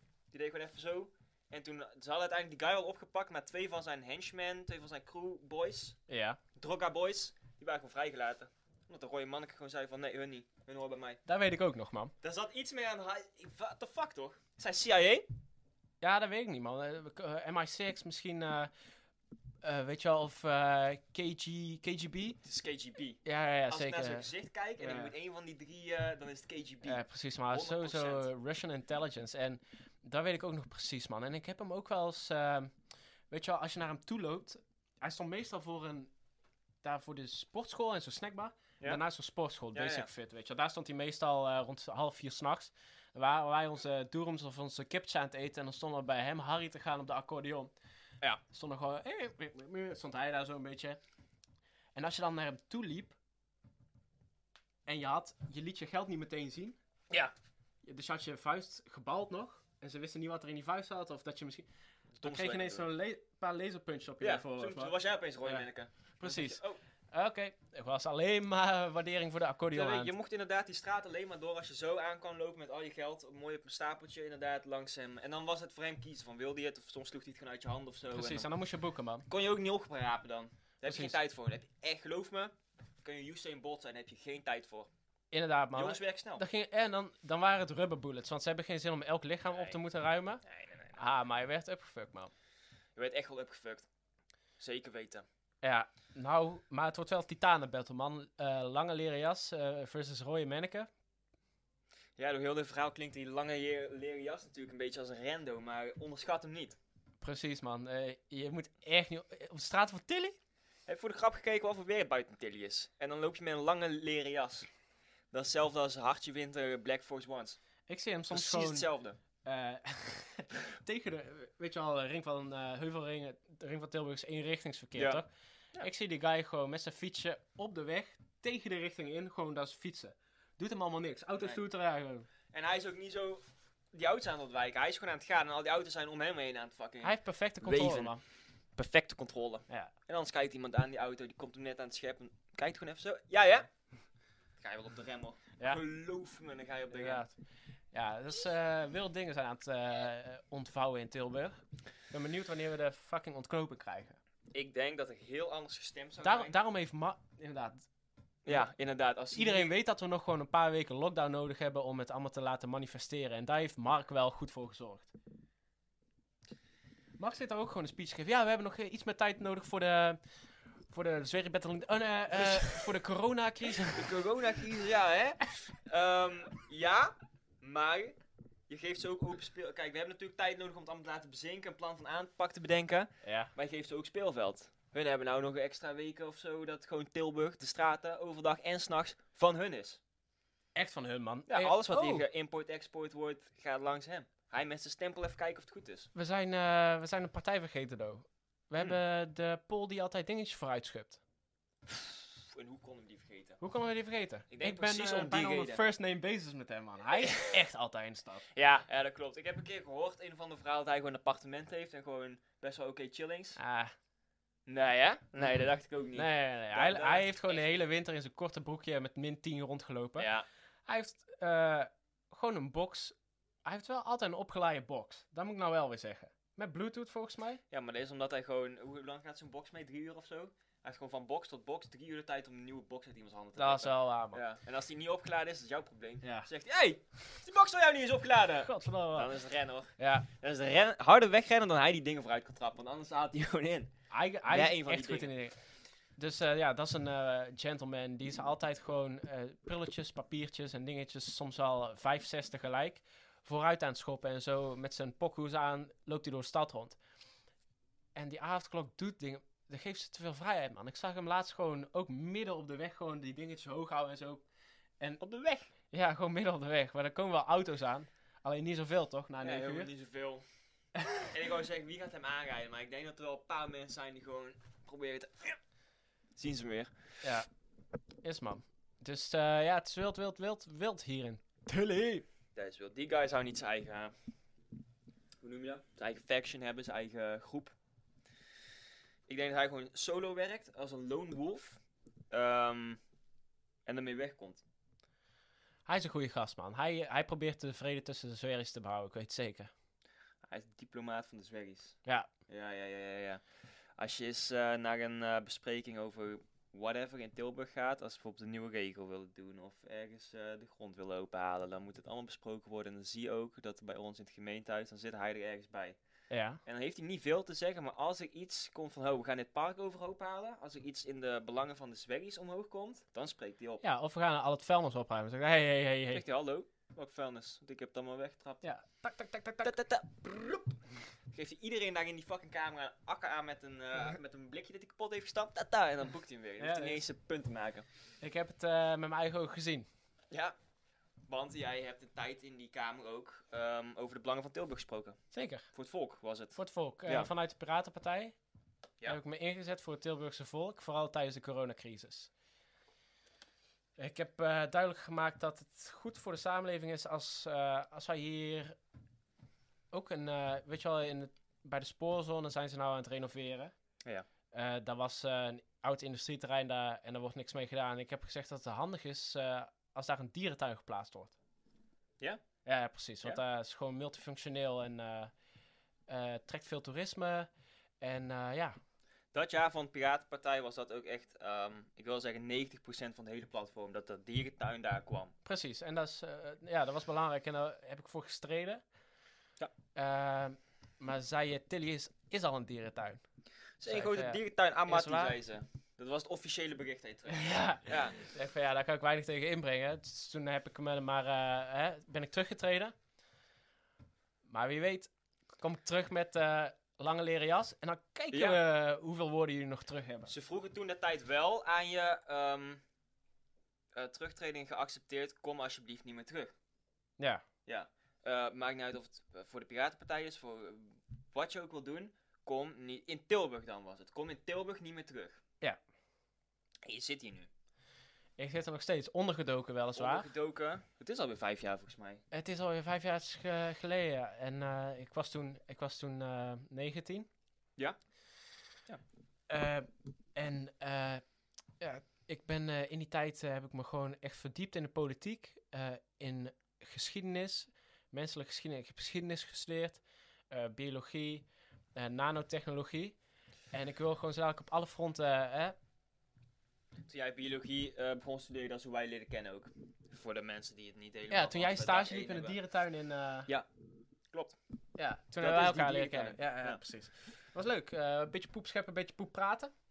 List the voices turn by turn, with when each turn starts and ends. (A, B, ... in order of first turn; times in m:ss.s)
0:00.3-0:06.0 A
0:06.1-0:06.4 B
0:06.6-0:11.2 A
0:11.3-0:12.1 B
0:12.2-0:15.3 A
0:16.0-0:18.7 B
0:19.6-0:22.4 B
0:22.4-0:28.3 A
0:23.2-0:25.1 B
0:26.8-0:32.7 B
0:33.3-0:36.1 B
0:36.8-0:47.7 B
0:39.7-0:40.1 A
0:48.5-0:51.0 B
0:52.0-0:53.2 B
0:54.9-0:56.8 B
0:57.8-1:01.7 B
1:02.2-1:02.9 A
1:02.2-1:05.6 B
1:04.2-1:06.8 A
1:06.2-1:10.1 B
1:09.7-1:18.5 A
1:18.1-1:19.3 B
1:19.3-1:24.9 A
1:20.9-1:21.2 B
1:25.3-1:32.3 B
1:25.7-1:26.4 A
1:29.5-1:29.8 A
1:30.4-1:31.0 A
1:33.0-1:33.9 A
1:34.6-1:35.3 A
1:35.6-1:40.9 B
1:42.2-1:46.8 A
1:47.2-1:50.4 B
1:50.9-1:54.7 A
1:55.3-1:57.6 A
1:57.9-1:58.9 B
1:58.3-1:59.2 A
1:59.4-2:12.3 B
2:05.0-2:05.2 A
2:11.4-2:11.6 A
2:12.5-2:18.1 A
2:17.0-2:18.2 B
2:18.8-2:23.7 A
2:24.6-2:27.3 A
2:26.9-2:27.3 B
2:27.9-2:34.2 B
2:34.5-2:36.6 A
2:36.2-2:37.9 B
2:38.4-2:39.7 A
2:39.3-2:45.1 B
2:47.2-2:50.2 B
2:50.9-2:54.2 B
2:52.4-2:52.9 A
2:53.9-2:58.2 A
2:58.7-3:10.0 A
3:03.2-3:03.5 B
3:10.7-3:12.2 B
3:11.5-3:16.1 A
3:16.1-3:21.2 B
3:21.9-3:23.6 A
3:23.6-3:28.4 B
3:24.5-3:25.8 A
3:27.2-3:27.5 A
3:28.5-3:33.6 A
3:33.6-3:33.9 B
3:34.6-3:37.8 A
3:35.4-3:40.3 B
3:40.2-3:40.5 A
3:40.9-3:43.1 B
3:43.6-3:47.6 B
3:47.7-4:03.9 A
3:53.6-3:54.4 B
3:56.2-3:56.5 B
3:58.6-3:59.3 B
4:00.0-4:00.3 B
4:04.1-4:05.6 B
4:04.5-4:05.3 A
4:06.2-4:17.0 B
4:18.2-4:24.4 B
4:25.2-4:25.7 A
4:25.9-4:29.9 B
4:29.4-4:30.4 A
4:31.0-4:31.3 B
4:31.2-4:35.6 A
4:36.4-4:36.9 A
4:37.2-4:37.5 B
4:38.2-4:42.2 B
4:42.6-4:44.1 A
4:45.4-4:47.7 A
4:49.3-4:51.8 A
4:52.3-4:53.0 A
4:53.9-4:54.6 A
4:55.9-4:59.7 B
5:00.4-5:03.4 A
5:04.0-5:16.0 A
5:16.3-5:16.6 B
5:16.6-5:23.8 A
5:23.8-5:26.2 B
5:26.1-5:28.6 A
5:28.6-5:29.7 B
5:29.6-5:30.8 A
5:31.3-5:37.8 A
5:36.6-5:37.0 B
5:38.2-5:39.9 B
5:41.3-5:45.2 A
5:45.3-5:45.7 B
5:45.7-5:47.3 A
5:46.6-5:48.4 B
5:49.0-5:52.3 B
5:54.0-5:58.8 B
5:59.9-6:03.7 B
6:04.5-6:11.3 B
6:12.6-6:15.3 B
6:16.1-6:17.5 B
6:18.0-6:18.8 B
6:19.3-6:25.3 A
6:25.4-6:28.8 B
6:30.0-6:33.2 B
6:33.8-6:38.2 A
6:33.9-6:35.4 B
6:37.3-6:43.0 B
6:44.4-6:50.3 B
6:48.3-6:48.6 A
6:50.3-6:52.8 A
6:53.9-6:56.5 A
6:57.2-6:57.4 B
6:57.6-7:05.4 A
7:06.8-7:07.5 A
7:08.4-7:10.3 B
7:10.0-7:12.2 A
7:12.3-7:17.3 B
7:19.5-7:21.2 B
7:21.8-7:33.2 B
7:33.7-7:35.8 B
7:37.0-7:42.6 A
7:41.3-7:43.5 B
7:44.3-7:44.6 A
7:45.0-7:49.7 B
7:45.4-7:46.8 A